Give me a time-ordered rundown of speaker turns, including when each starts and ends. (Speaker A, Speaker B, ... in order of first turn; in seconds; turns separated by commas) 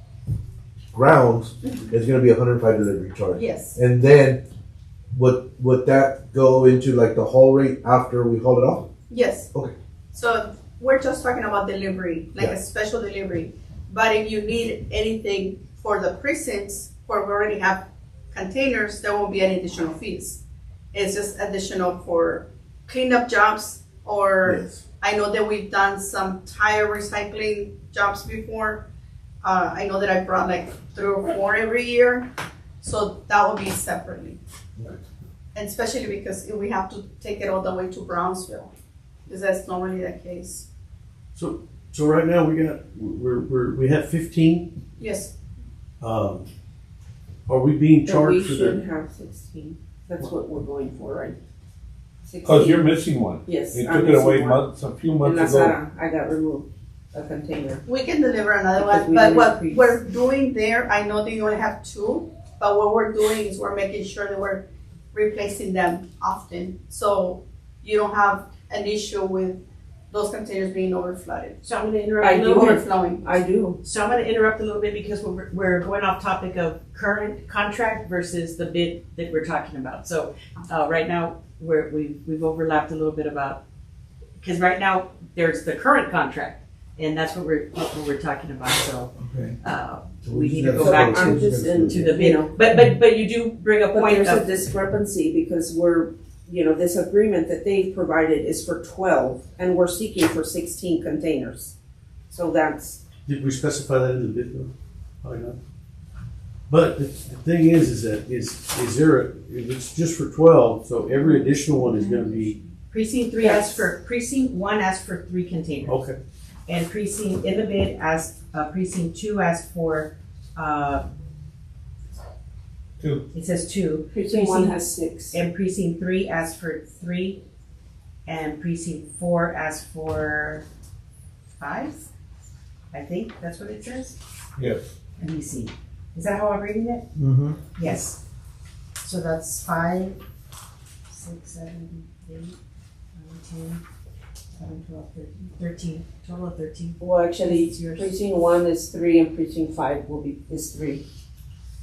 Speaker A: 0.9-4.4, Speaker B: 3.3-3.8, Speaker A: 5.1-8.9, Speaker B: 9.1-9.5, Speaker B: 10.1-20.4, Speaker B: 20.9-28.9, Speaker A: 24.4-24.8, Speaker B: 29.4-32.3, Speaker B: 32.8-34.4, Speaker B: 35.5-38.7, Speaker B: 39.3-40.7, Speaker C: 41.3-44.7, Speaker B: 45.0-45.3, Speaker C: 46.0-46.5, Speaker C: 47.5-48.8, Speaker D: 48.0-51.4, Speaker D: 52.2-52.9, Speaker E: 52.4-55.8, Speaker D: 53.5-54.6, Speaker D: 55.2-57.9, Speaker B: 57.9-71.6, Speaker D: 58.8-59.9, Speaker F: 71.6-72.8, Speaker D: 72.2-73.8, Speaker B: 72.7-73.3, Speaker F: 73.8-83.6, Speaker F: 84.4-94.5, Speaker A: 89.3-89.5, Speaker A: 90.2-92.1, Speaker D: 90.8-92.6, Speaker D: 93.9-101.7, Speaker D: 102.3-103.0, Speaker C: 103.3-104.7, Speaker C: 105.2-105.6, Speaker C: 106.7-112.6, Speaker F: 112.9-116.0, Speaker D: 113.4-113.9, Speaker C: 115.8-116.2, Speaker F: 116.7-121.0, Speaker E: 123.0-123.2, Speaker F: 123.3-127.4, Speaker D: 124.1-125.4, Speaker F: 128.3-130.7, Speaker F: 131.6-132.1, Speaker F: 132.9-134.2, Speaker E: 134.6-134.8, Speaker F: 135.2-137.1, Speaker A: 137.2-137.6, Speaker F: 137.7-138.2, Speaker F: 139.0-140.2, Speaker F: 141.1-142.6, Speaker F: 143.2-143.8, Speaker F: 144.6-148.2, Speaker D: 147.0-151.1